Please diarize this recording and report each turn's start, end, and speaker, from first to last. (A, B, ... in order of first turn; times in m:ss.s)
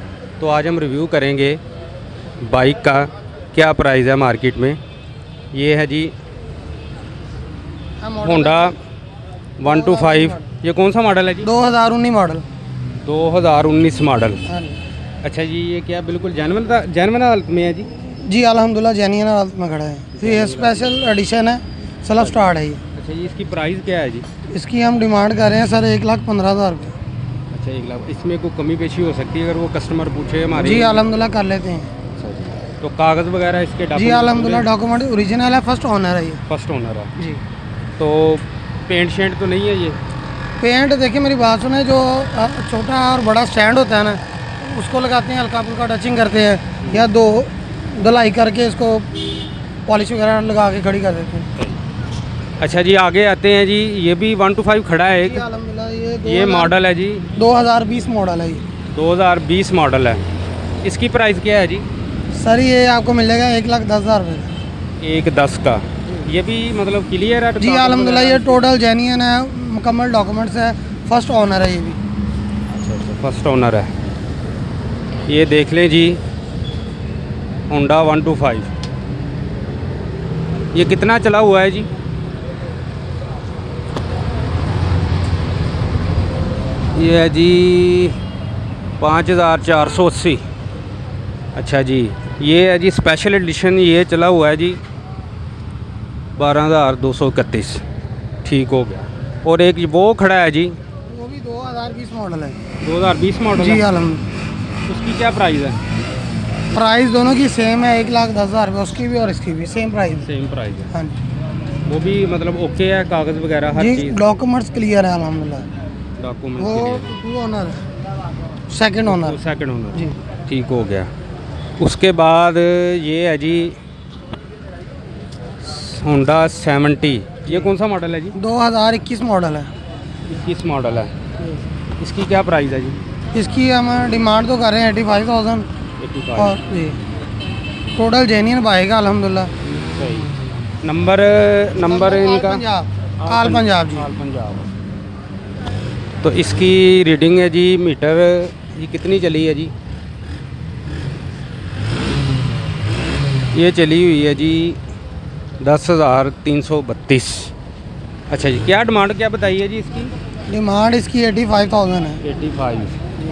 0:00.4-0:01.6 A
0:02.4-0:04.8 A
0:05.5-0:06.1 A
0:08.0-0:08.8 B
0:08.2-0:08.8 A
0:09.6-0:11.5 A
0:09.6-0:10.5 B
0:11.4-0:12.4 B
0:13.0-0:14.4 A
0:14.4-0:14.8 B
0:15.2-0:17.9 A
0:18.2-0:22.8 B
0:20.1-0:20.9 A
0:22.2-0:24.2 A
0:24.5-0:27.0 B
0:27.5-0:31.0 A
0:30.5-0:31.9 B
0:32.1-0:34.7 A
0:33.9-0:36.4 B
0:36.5-0:37.1 A
0:38.0-0:40.0 A
0:40.6-0:51.5 B
0:46.8-0:47.1 A
0:52.6-0:55.4 A
0:55.2-0:56.7 B
0:56.2-0:57.2 A
0:57.4-0:58.6 B
0:58.9-1:00.2 A
1:00.8-1:01.8 A
1:02.3-1:04.5 B
1:05.0-1:08.7 A
1:07.6-1:12.0 B
1:12.7-1:13.9 A
1:15.3-1:16.2 A
1:17.7-1:18.7 A
1:20.7-1:21.9 A
1:26.9-1:28.2 A
1:29.0-1:30.4 A
1:31.6-1:34.8 A
1:36.4-1:37.8 A
1:38.4-1:40.8 A
1:41.1-1:42.6 B
1:42.8-1:43.8 A
1:43.6-1:44.2 B
1:44.9-1:45.8 A
1:46.7-1:50.3 B
1:50.2-1:50.9 A
1:50.9-1:51.2 B
1:51.8-1:54.2 A
1:53.8-1:55.7 B
1:56.2-1:57.2 A
1:56.6-1:57.8 B
1:58.7-1:59.4 B
1:59.0-2:01.1 A
2:01.8-2:03.8 A
2:05.6-2:08.4 A
2:08.3-2:09.7 B
2:10.3-2:11.1 A
2:12.0-2:13.0 A
2:13.3-2:15.7 B
2:16.0-2:16.6 A
2:16.4-2:17.0 B
2:18.0-2:19.5 B
2:19.9-2:22.6 A
2:21.8-2:24.1 B
2:23.2-2:24.7 A
2:26.2-2:29.7 A
2:33.5-2:34.8 A
2:35.6-2:37.5 A
2:38.3-2:40.1 A
2:40.5-2:42.2 B
2:42.2-2:43.0 A